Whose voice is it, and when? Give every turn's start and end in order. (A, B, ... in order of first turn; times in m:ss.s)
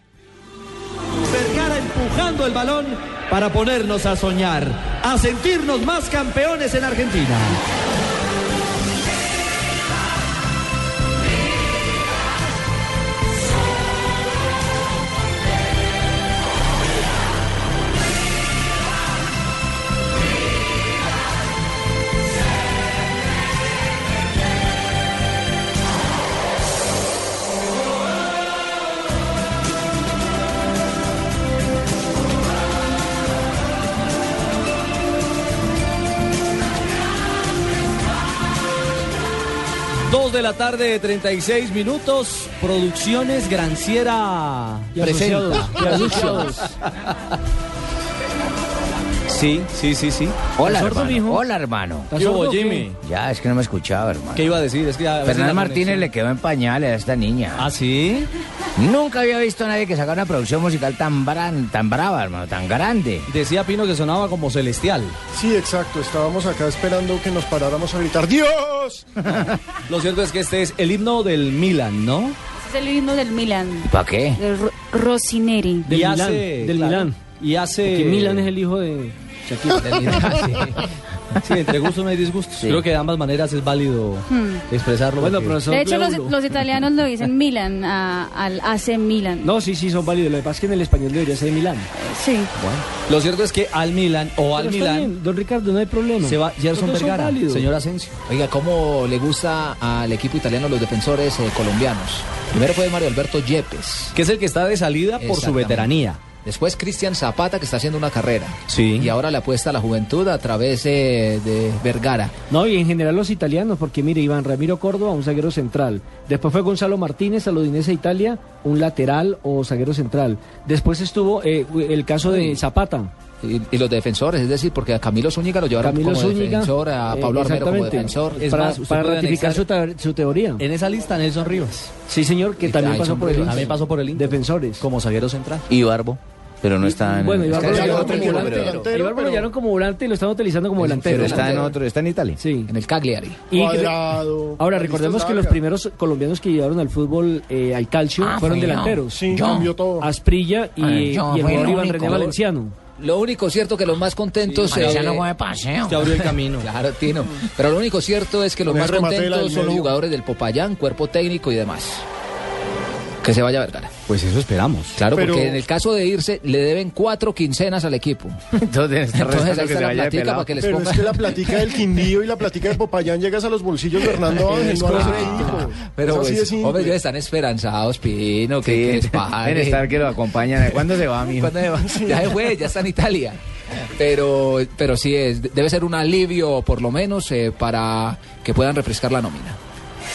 0:01.3-0:07.6 A
0:40.1-0:46.7 A
0:45.0-0:46.8 B
0:49.3-0:50.4 A
0:50.6-0:52.1 C
0:50.6-0:51.5 B
0:52.1-0:52.9 B
0:52.2-0:53.0 A
0:53.0-0:54.6 C
0:54.3-0:56.1 A
0:55.2-0:57.7 C
0:57.6-0:58.3 A
0:58.8-1:03.3 C
1:03.3-1:05.2 A
1:05.3-1:09.1 D
1:09.9-1:12.4 A
1:12.6-1:15.9 E
1:13.8-1:14.4 C
1:15.8-1:17.2 B
1:15.9-1:18.5 A
1:17.8-1:20.6 B
1:19.8-1:20.8 F
1:21.4-1:25.6 A
1:24.3-1:24.6 E
1:25.2-1:26.5 B
1:25.7-1:29.5 E
1:29.4-1:31.9 B
1:32.0-1:32.5 E
1:33.0-1:35.1 A
1:34.5-1:37.7 B
1:36.2-1:38.2 A
1:38.3-1:44.1 F
1:44.1-1:46.2 A
1:45.2-1:52.3 F
1:48.7-1:49.1 A
1:52.5-2:03.1 B
2:02.3-2:02.6 A
2:03.4-2:08.4 F
2:05.8-2:10.6 B
2:08.4-2:09.6 A
2:10.6-2:11.9 A
2:12.1-2:14.8 B
2:12.6-2:13.8 F
2:13.4-2:15.7 A
2:15.7-2:18.7 C
2:16.8-2:21.8 B
2:17.5-2:18.9 A
2:17.6-2:19.5 D
2:20.8-2:22.4 C
2:21.1-2:21.6 F
2:22.4-2:22.7 B
2:22.7-2:23.4 F
2:23.5-2:24.0 B
2:23.5-2:25.6 D
2:24.6-2:29.3 B
2:28.2-2:29.8 C
2:29.1-2:30.1 D
2:30.0-2:32.8 B
2:30.8-2:32.4 C
2:33.0-2:35.3 F
2:34.4-2:35.2 A
2:34.7-2:36.1 C
2:35.8-2:36.7 A
2:36.1-2:42.0 F
2:38.7-2:40.0 D
2:43.2-2:44.0 F
2:44.1-2:45.0 A
2:45.0-2:48.4 F
2:45.1-2:45.6 D
2:48.6-2:50.6 C
2:49.1-2:51.8 F
2:50.6-2:57.0 D
2:54.2-3:00.0 F
2:58.6-3:01.9 C
3:00.6-3:00.9 F
3:01.4-3:03.4 F
3:04.0-3:09.6 F